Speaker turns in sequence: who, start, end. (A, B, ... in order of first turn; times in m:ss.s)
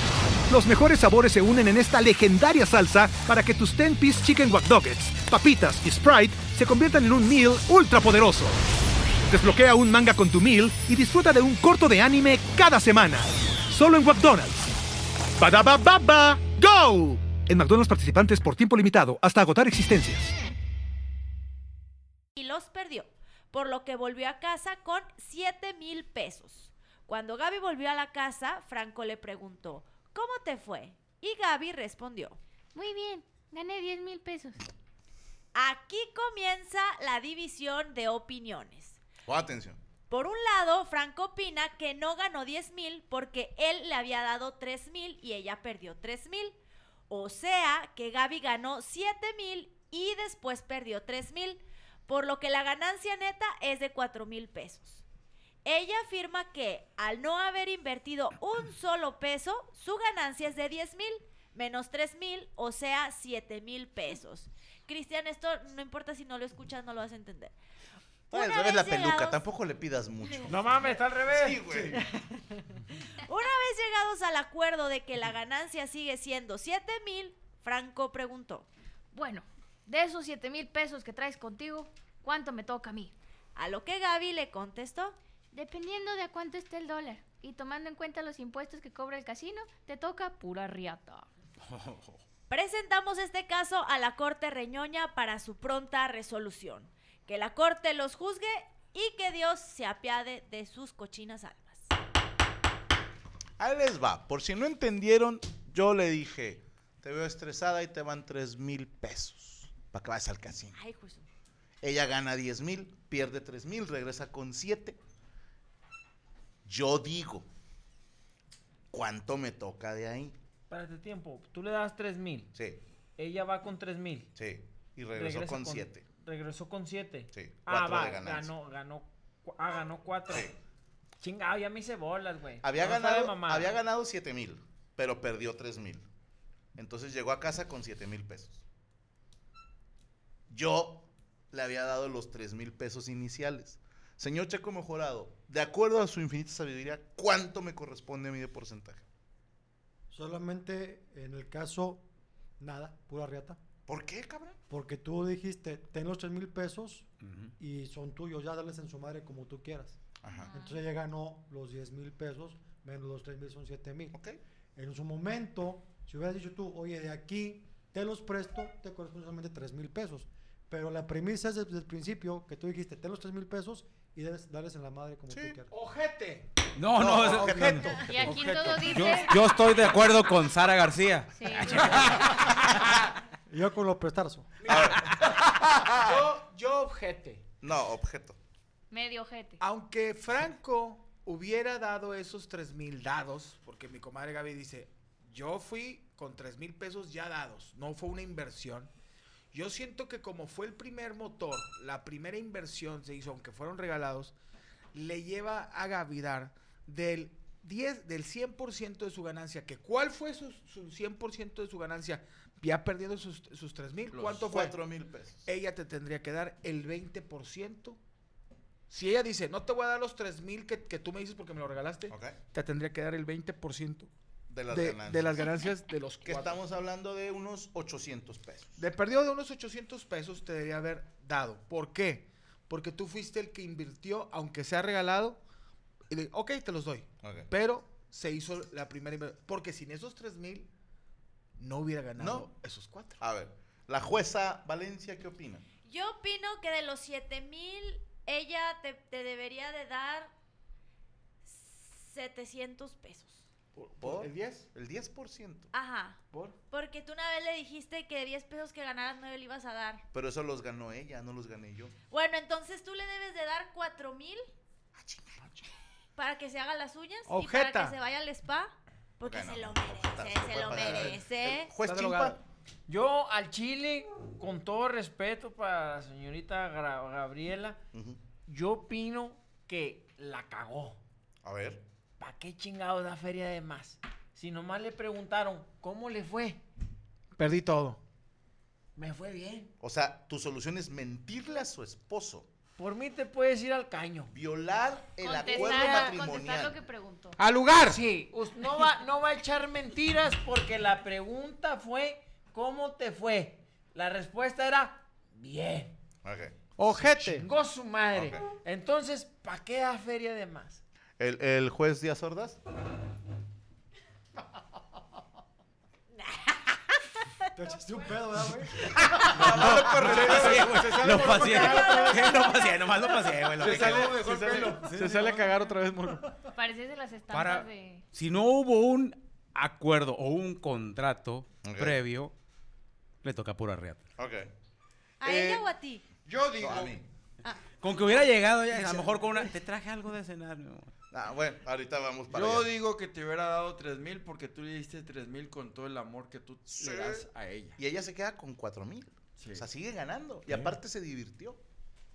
0:00.5-0:08.6 A
0:09.3-0:14.7 A
0:15.4-0:20.3 A
0:22.4-0:32.4 B
0:32.7-0:34.6 C
0:35.6-0:39.0 B
0:39.3-0:39.8 D
0:40.1-0:46.6 B
0:47.1-0:55.0 B
0:55.6-1:07.6 B
1:08.3-1:09.4 B
1:08.3-1:12.0 D
1:10.4-1:12.2 E
1:13.2-1:18.7 B
1:19.1-1:23.1 C
1:23.6-1:25.2 B
1:25.5-1:31.3 C
1:31.7-1:32.2 F
1:32.5-1:41.9 B
1:43.6-1:50.8 D
1:50.7-1:51.3 B
1:51.8-1:55.0 D
1:56.6-1:57.5 D
1:58.9-2:00.4 D
2:00.7-2:02.5 E
2:02.5-2:02.8 D
2:03.2-2:04.3 E
2:04.4-2:06.0 D
2:05.1-2:10.5 E
2:07.3-2:08.5 D
2:10.3-2:10.5 D
2:11.2-2:13.7 E
2:12.6-2:16.1 D
2:16.8-2:18.6 D
2:20.5-2:29.0 D
2:30.1-2:32.1 G
2:32.6-2:33.6 G
2:33.9-2:34.6 D
2:34.7-2:40.0 G
2:40.2-2:40.5 D
2:40.4-2:40.8 C
2:40.5-2:44.2 G
2:44.1-2:44.4 D
2:44.8-2:55.7 G
2:55.3-2:55.6 D
2:55.7-2:56.5 H
2:56.8-2:57.9 F
2:56.9-2:58.2 D
2:57.2-2:59.2 H
2:58.0-2:59.4 C
2:58.9-3:02.7 F
3:01.4-3:02.3 C
3:03.5-3:04.5 G
3:04.7-3:05.1 H
3:04.7-3:05.1 D
3:05.9-3:06.2 D
3:05.9-3:07.4 H
3:07.6-3:08.4 D
3:08.9-3:09.6 C
3:09.6-3:18.9 H
3:19.5-3:24.3 H
3:24.9-3:34.8 H
3:34.1-3:35.5 D
3:35.4-3:38.0 H
3:38.9-3:44.1 H
3:42.1-3:42.4 D
3:44.5-3:45.5 D
3:44.7-3:46.6 H
3:46.2-3:48.8 D
3:48.8-3:55.4 H
3:56.1-4:00.7 H
3:57.2-3:57.5 D
4:01.6-4:03.2 H
4:02.2-4:02.5 D
4:03.2-4:05.6 D
4:05.8-4:10.3 B
4:11.4-4:13.4 B
4:13.8-4:14.7 H
4:14.0-4:15.7 D
4:15.7-4:20.0 B
4:16.3-4:16.6 H
4:20.1-4:21.9 D
4:22.1-4:24.5 B
4:25.0-4:25.7 D
4:26.2-4:31.7 B
4:27.3-4:28.0 H
4:29.2-4:32.4 D
4:31.8-4:32.4 H
4:32.9-4:37.8 E
4:37.9-4:38.2 D
4:38.4-4:41.0 E
4:41.4-4:41.8 D
4:42.2-4:46.6 E
4:47.4-4:48.0 H
4:49.0-4:49.7 E
4:49.8-4:52.5 D
4:52.8-4:54.3 E
4:54.3-4:56.8 D
4:55.2-4:57.4 C
4:55.4-4:56.4 B
4:57.4-4:58.0 H
4:57.8-5:06.0 E
5:06.2-5:06.6 D
5:06.8-5:07.5 H
5:07.0-5:10.8 E
5:08.1-5:08.4 D
5:11.2-5:12.6 D
5:16.1-5:18.0 B
5:17.6-5:19.3 G
5:19.2-5:20.9 D
5:19.4-5:24.3 F
5:19.5-5:22.5 H
5:21.5-5:22.5 B
5:23.5-5:25.6 I
5:23.6-5:24.9 D
5:23.6-5:26.4 H
5:26.5-5:28.0 C
5:27.3-5:27.7 H
5:28.1-5:32.3 F
5:31.6-5:32.0 D
5:33.2-5:34.1 F
5:34.2-5:34.5 D
5:35.2-5:36.0 B
5:35.2-5:35.7 D
5:36.3-5:37.0 I
5:36.6-5:37.0 D
5:37.8-5:40.9 F
5:38.7-5:39.1 D
5:41.1-5:42.7 D
5:42.3-5:47.8 I
5:46.7-5:51.6 D
5:49.4-5:49.6 I